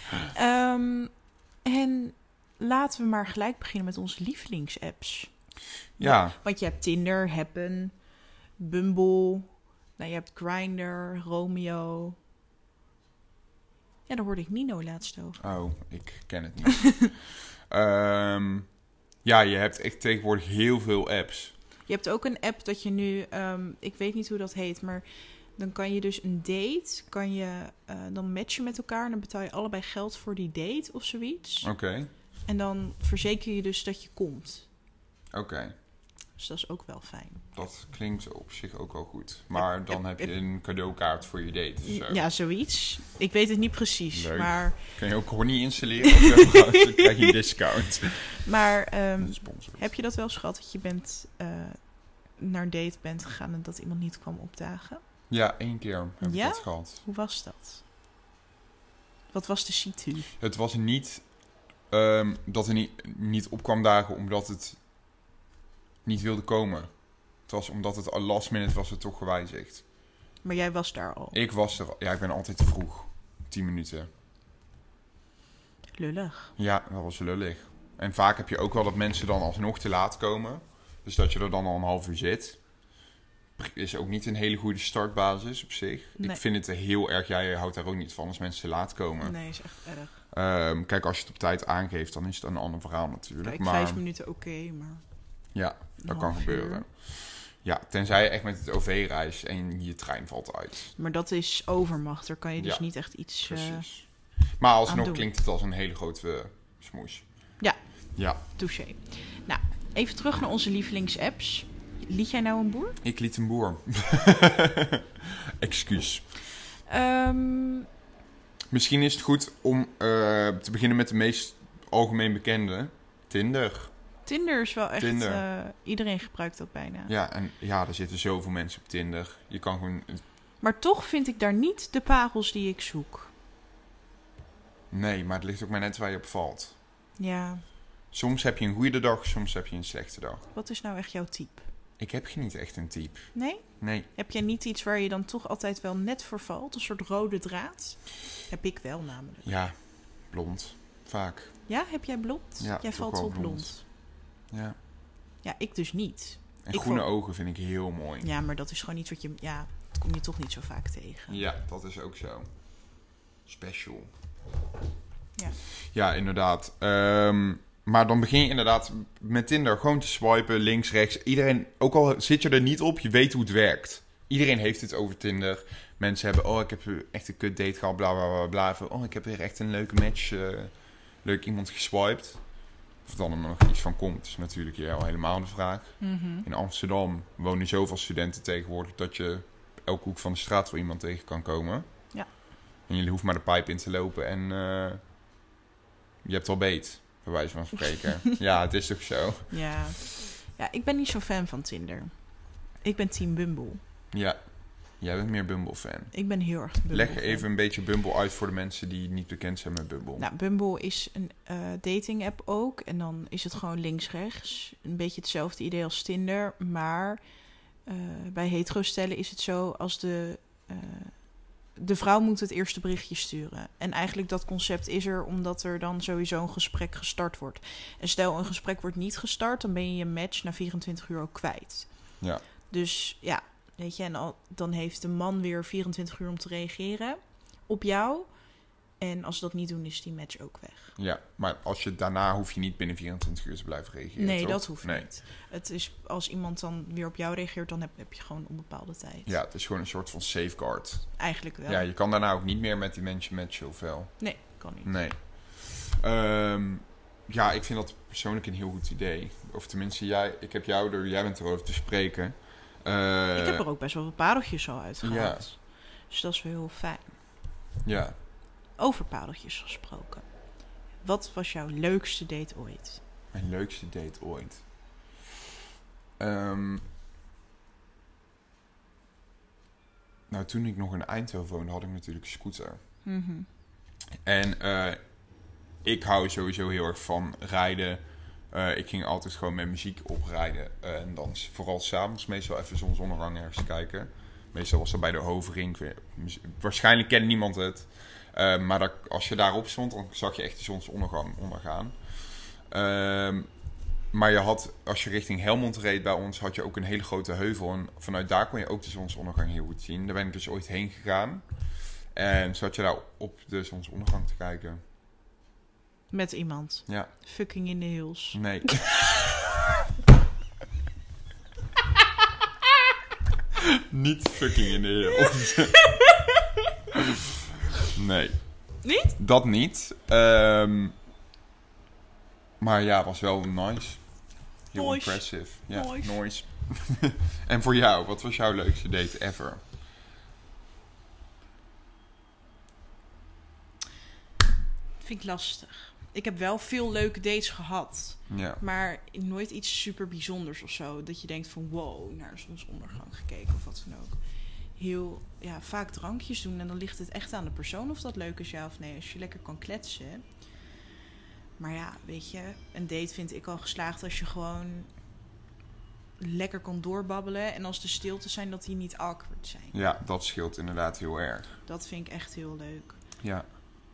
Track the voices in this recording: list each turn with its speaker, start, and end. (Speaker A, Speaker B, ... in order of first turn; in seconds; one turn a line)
Speaker A: 0.2-5.3
Speaker B: 6.0-6.4
Speaker A: 6.0-7.9
Speaker A: 8.6-12.2
Speaker A: 14.1-15.4
Speaker B: 15.4-18.7
Speaker B: 19.2-21.5
Speaker A: 21.9-25.0
Speaker A: 25.6-31.7
Speaker B: 31.6-32.1
Speaker A: 32.5-34.7
Speaker B: 35.3-35.7
Speaker A: 36.4-37.5
Speaker B: 37.5-42.2
Speaker A: 41.8-44.8
Speaker B: 44.1-48.4
Speaker A: 46.0-47.3
Speaker A: 48.4-55.0
Speaker B: 49.2-49.8
Speaker B: 55.3-57.0
Speaker A: 56.2-57.8
Speaker A: 59.3-60.3
Speaker B: 60.4-61.3
Speaker B: 61.9-64.8
Speaker B: 66.0-69.8
Speaker A: 70.4-71.4
Speaker B: 71.3-74.1
Speaker A: 76.0-76.5
Speaker B: 76.6-82.6
Speaker B: 83.6-89.6
Speaker A: 89.2-90.2
Speaker B: 90.3-94.0
Speaker A: 93.4-95.0
Speaker B: 95.5-100.9
Speaker A: 96.0-96.8
Speaker A: 101.0-103.9
Speaker B: 102.6-102.9
Speaker B: 103.4-107.5
Speaker A: 104.8-105.2
Speaker A: 108.3-113.0
Speaker B: 113.0-116.4
Speaker A: 116.8-117.9
Speaker B: 118.7-123.9
Speaker A: 124.2-127.1
Speaker B: 125.0-125.4
Speaker B: 127.1-130.2
Speaker A: 130.6-133.3
Speaker B: 134.9-136.7
Speaker A: 137.2-137.6
Speaker B: 138.1-140.4
Speaker A: 140.5-141.7
Speaker B: 142.0-144.1
Speaker A: 143.3-149.5
Speaker B: 149.4-151.6
Speaker A: 151.7-153.8
Speaker B: 152.6-153.8
Speaker B: 154.5-154.8
Speaker A: 155.4-157.1
Speaker B: 156.6-158.3
Speaker A: 158.2-161.4
Speaker B: 161.3-162.5
Speaker B: 163.4-164.1
Speaker B: 165.8-182.4
Speaker B: 183.0-191.8
Speaker A: 186.0-186.5
Speaker B: 192.9-195.0
Speaker B: 196.2-199.7
Speaker A: 199.5-202.1
Speaker A: 202.8-203.8
Speaker B: 204.1-206.2
Speaker A: 206.1-207.4
Speaker B: 206.9-210.3
Speaker A: 210.2-217.2
Speaker A: 217.8-231.9
Speaker A: 232.7-238.3
Speaker A: 239.0-240.9
Speaker B: 241.0-245.1
Speaker A: 244.2-249.3
Speaker B: 249.2-263.6
Speaker A: 251.2-251.9
Speaker A: 254.2-254.9
Speaker A: 263.3-267.1
Speaker B: 265.0-265.5
Speaker B: 267.8-268.1
Speaker A: 268.8-270.3
Speaker A: 271.0-273.0
Speaker B: 273.3-274.6
Speaker B: 276.2-276.8
Speaker B: 280.3-282.8
Speaker A: 283.0-283.5
Speaker B: 284.2-285.0
Speaker B: 285.8-303.5
Speaker B: 304.1-311.5
Speaker B: 312.1-314.8
Speaker A: 316.1-318.4
Speaker B: 318.3-319.5
Speaker B: 323.6-325.8
Speaker A: 325.2-326.5
Speaker B: 327.9-330.9
Speaker A: 328.8-329.1
Speaker B: 332.6-339.6
Speaker A: 334.7-336.2
Speaker A: 345.0-354.2
Speaker B: 348.3-348.6
Speaker A: 354.8-360.2
Speaker A: 361.6-364.9
Speaker A: 366.2-369.8
Speaker B: 369.7-371.5
Speaker A: 371.6-373.0
Speaker B: 373.2-373.5